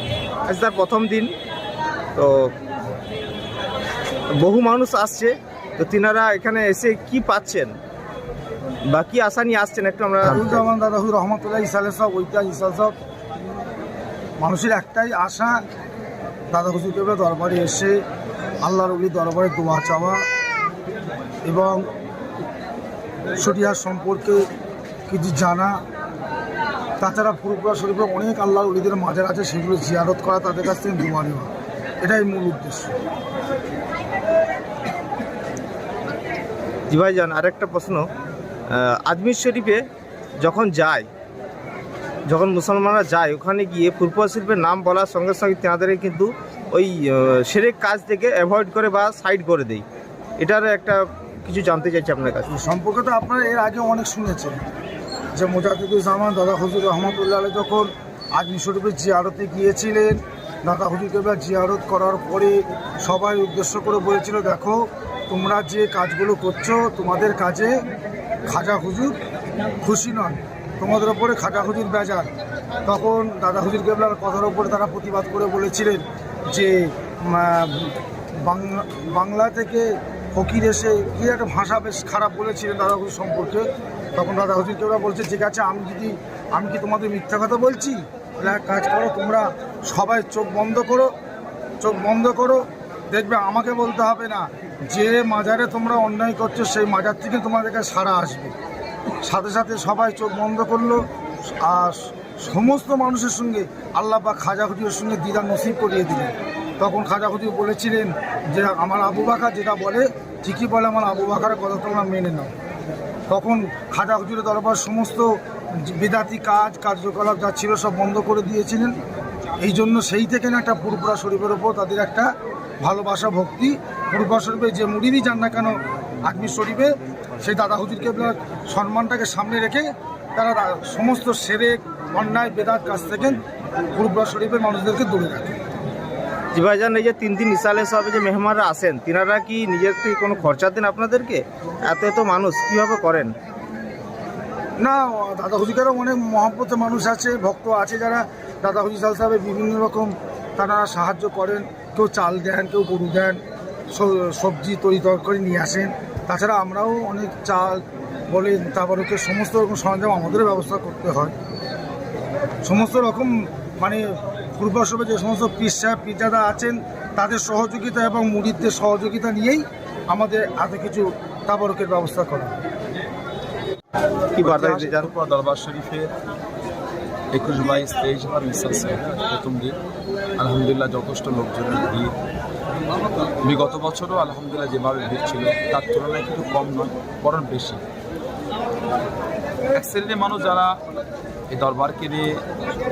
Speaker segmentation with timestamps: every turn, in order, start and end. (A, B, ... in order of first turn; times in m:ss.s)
0:00.5-0:01.3 A
0:02.1-0:02.5 A
0:04.4-0:07.7 A
0:08.9-0:10.6 A
0:10.2-0:12.9 B
0:14.4-0:15.6 B
0:16.5-0:18.0 B
0:18.6-0:20.2 B
0:21.4-0:21.9 B
0:23.4-0:24.5 B
0:25.1-0:25.8 B
0:27.0-0:31.5 B
0:32.0-0:33.0 B
0:36.9-0:38.0 A
0:38.7-0:39.8 A
0:40.4-0:41.1 A
0:42.3-0:49.8 A
0:50.4-0:52.5 A
0:52.5-0:54.6 B
0:55.3-1:07.8 B
1:08.5-1:09.2 B
1:09.8-1:12.3 B
1:12.8-1:31.1 B
1:31.8-1:38.5 B
1:39.2-1:52.5 B
1:53.3-1:59.0 B
1:59.6-2:02.3 B
2:02.8-2:13.4 B
2:13.9-2:15.6 B
2:16.5-2:23.3 A
2:24.8-2:33.4 B
2:33.9-2:41.3 B
2:42.6-2:52.5 B
2:54.4-2:55.1 A
2:54.4-2:56.1 C
2:57.3-2:59.8 C
3:00.4-3:02.1 C
3:03.4-3:07.8 C
3:09.7-3:10.7 C
3:11.5-3:12.3 C